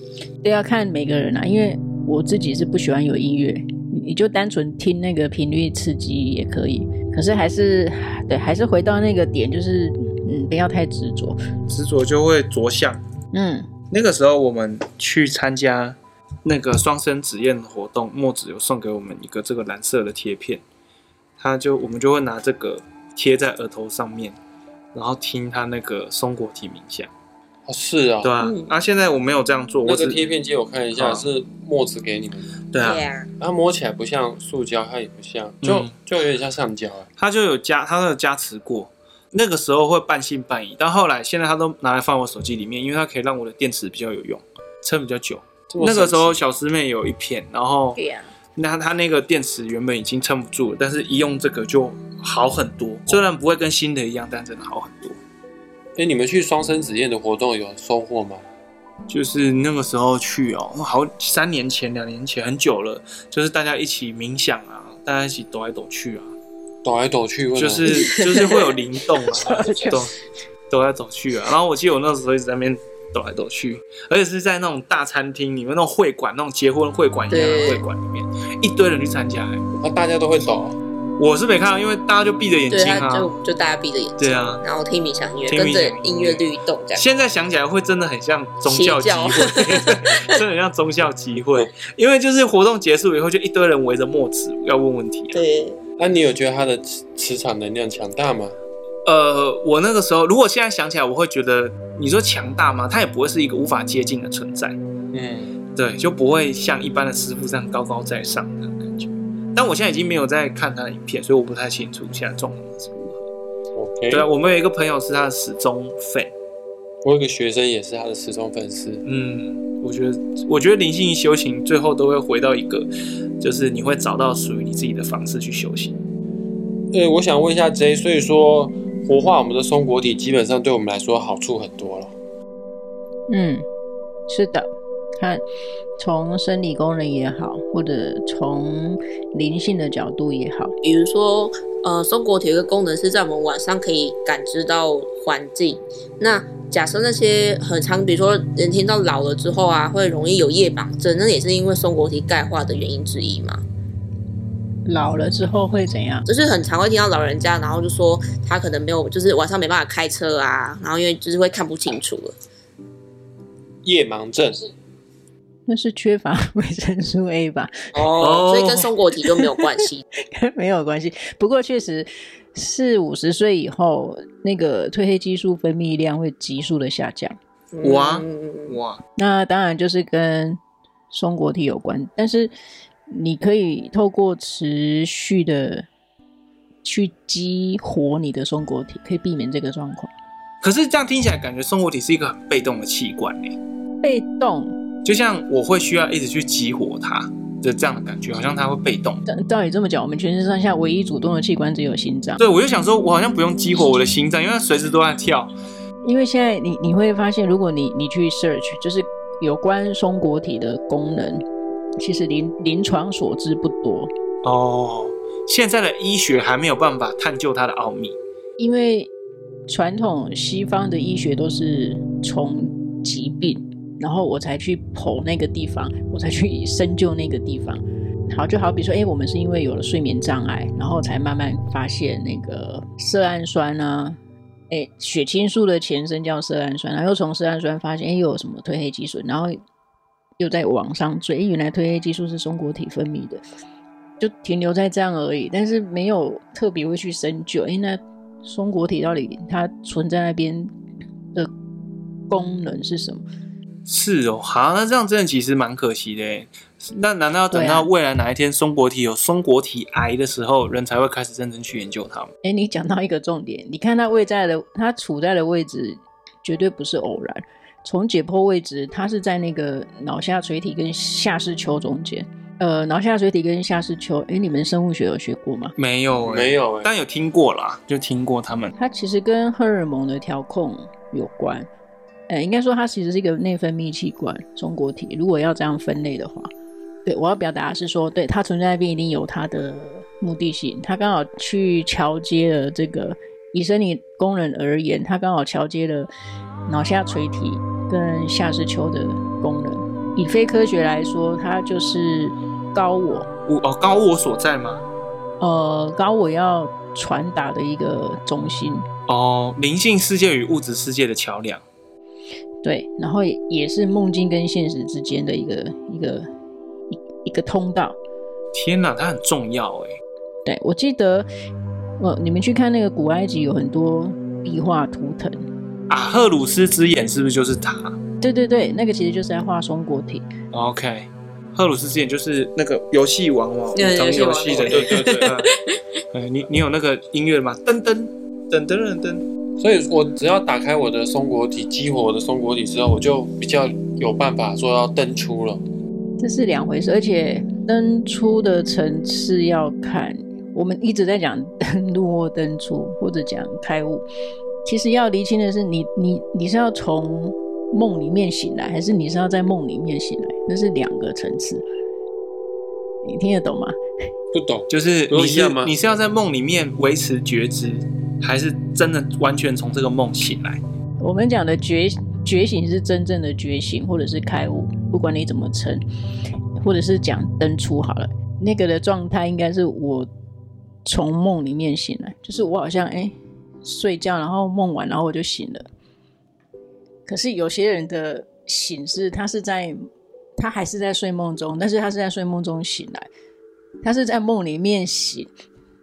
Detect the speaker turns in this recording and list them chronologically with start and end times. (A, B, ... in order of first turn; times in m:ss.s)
0:00.4-0:11.4 A
0:11.7-0:13.0 B
0:13.3-0:13.7 A
0:13.9-0:20.6 B
0:21.4-0:24.4 B
0:24.9-0:27.1 B
0:27.6-0:28.3 C
0:28.2-0:30.2 B
0:28.4-0:28.7 D
0:29.8-0:32.6 C
0:31.0-0:31.2 B
0:32.7-0:33.0 B
0:32.8-0:33.3 D
0:33.4-0:37.1 C
0:35.6-0:35.9 B
0:37.2-0:48.0 B
0:45.7-0:46.4 C
0:48.0-0:48.3 D
0:48.6-0:55.2 B
0:56.0-0:58.4 C
0:59.1-1:06.3 B
1:06.8-1:08.1 C
1:07.6-1:10.2 B
1:07.8-1:09.7 D
1:09.4-1:10.0 A
1:10.7-1:19.6 B
1:17.3-1:17.8 D
1:19.8-1:20.8 C
1:21.2-1:23.3 B
1:22.7-1:27.0 D
1:24.2-1:24.6 B
1:25.5-1:26.4 B
1:26.9-1:35.4 B
1:28.6-1:30.4 D
1:35.3-1:35.8 D
1:36.0-1:38.6 C
1:39.0-1:44.8 B
1:45.1-1:45.6 C
1:45.8-1:53.2 B
1:53.7-1:54.3 C
1:54.1-1:56.3 B
1:57.0-1:59.0 C
1:59.0-2:02.9 B
2:03.4-2:06.0 B
2:06.9-2:12.1 C
2:13.3-2:13.6 A
2:14.3-2:15.4 A
2:16.0-2:20.7 A
2:20.8-2:33.6 D
2:34.8-2:36.2 A
2:36.3-2:42.3 D
2:43.8-2:44.6 C
2:45.7-2:48.0 A
2:47.9-2:50.0 D
2:48.2-2:48.9 B
2:50.2-2:57.4 A
2:57.7-2:58.8 D
2:57.8-2:59.0 B
2:59.2-3:00.6 A
3:01.1-3:02.5 A
3:03.1-3:05.8 A
3:06.8-3:10.1 A
3:10.6-3:13.6 B
3:14.0-3:14.8 A
3:15.0-3:19.2 B
3:19.2-3:22.4 A
3:22.4-3:25.5 B
3:26.0-3:31.4 A
3:32.0-3:34.1 A
3:34.4-3:38.2 B
3:38.6-3:39.1 A
3:39.7-3:54.2 A
3:54.7-3:59.6 A
4:00.4-4:03.4 A
4:04.2-4:10.7 A
4:12.3-4:13.2 A
4:13.8-4:22.3 B
4:17.5-4:17.9 A
4:22.4-4:35.7 A
4:35.8-4:38.7 B
4:36.2-4:36.9 C
4:38.8-4:41.7 A
4:42.3-4:46.5 A
4:47.0-4:56.1 A
4:56.7-5:03.3 A
5:03.5-5:04.8 B
5:05.4-5:08.8 A
5:09.1-5:11.6 B
5:12.6-5:16.3 A
5:16.9-5:18.0 A
5:18.5-5:20.0 B
5:20.4-5:21.3 A
5:22.0-5:25.4 A
5:25.9-5:28.0 B
5:28.2-5:30.2 A
5:30.5-5:35.5 B
5:33.7-5:35.8 D
5:34.5-5:35.4 C
5:36.1-5:39.2 B
5:39.6-5:45.6 C
5:46.2-5:54.0 A
5:54.6-6:01.6 A
6:03.0-6:03.8 A
6:04.3-6:05.7 C
6:04.7-6:10.6 B
6:11.0-6:15.8 A
6:16.6-6:20.1 A
6:20.8-6:25.7 A
6:27.1-6:33.1 A
6:33.8-6:35.3 A